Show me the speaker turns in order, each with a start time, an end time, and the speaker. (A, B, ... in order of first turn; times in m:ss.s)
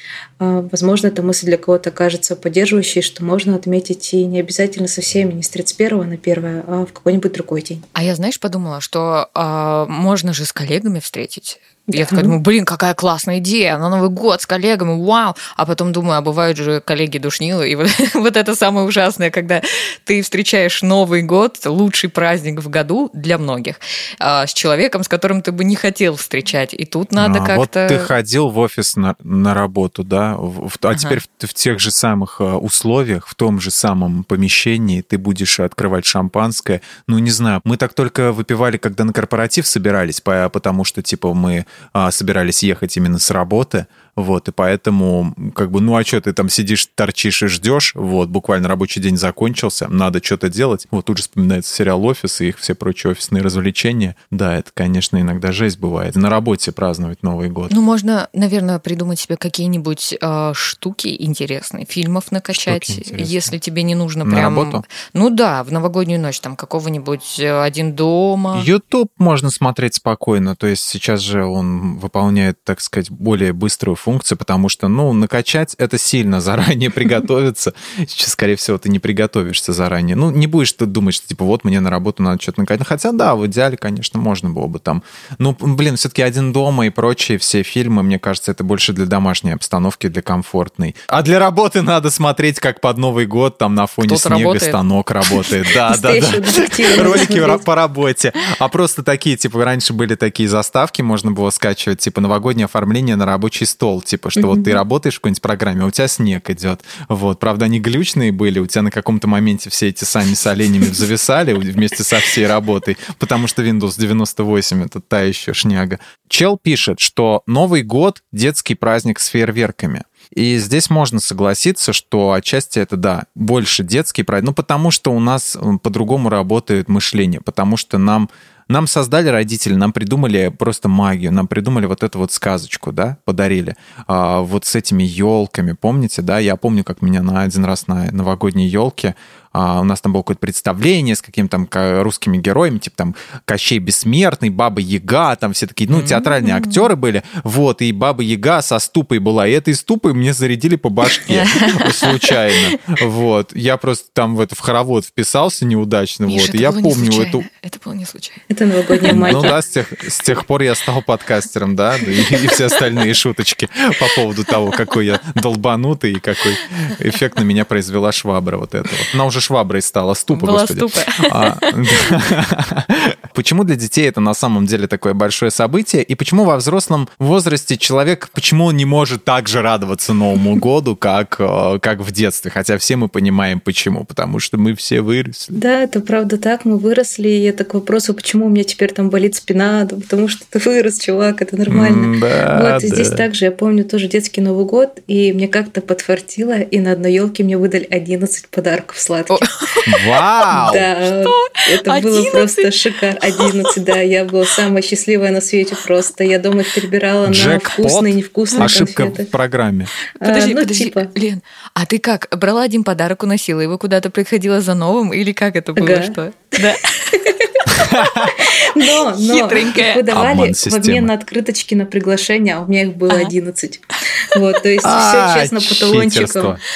0:00.4-0:07.8 A
0:07.9-0:28.1 B
0:11.9-0:12.4 A
0:27.2-0:57.7 C
0:30.9-0:31.2 B
0:57.7-1:08.7 B
1:02.5-1:03.5 C
1:04.2-1:04.8 C
1:08.5-2:37.4 C
1:34.0-1:35.5 B
1:35.8-1:37.6 A
1:44.4-1:44.8 A
2:25.9-2:26.9 B
2:31.2-2:32.5 B
2:36.3-2:39.5 B
2:38.5-2:39.6 A
2:39.1-3:05.6 C
2:42.3-2:42.8 B
2:50.3-2:52.1 B
3:05.5-3:19.5 A
3:11.7-3:13.2 C
3:19.3-3:20.2 B
3:19.8-3:20.9 C
3:20.5-3:29.3 A
3:21.2-3:23.8 B
3:27.2-3:29.9 C
3:30.2-3:37.3 B
3:30.2-3:31.1 A
3:35.8-3:37.5 A
3:37.7-3:38.4 C
3:38.3-3:46.6 A
3:38.4-3:40.1 B
3:40.1-3:41.1 C
3:44.8-3:46.6 C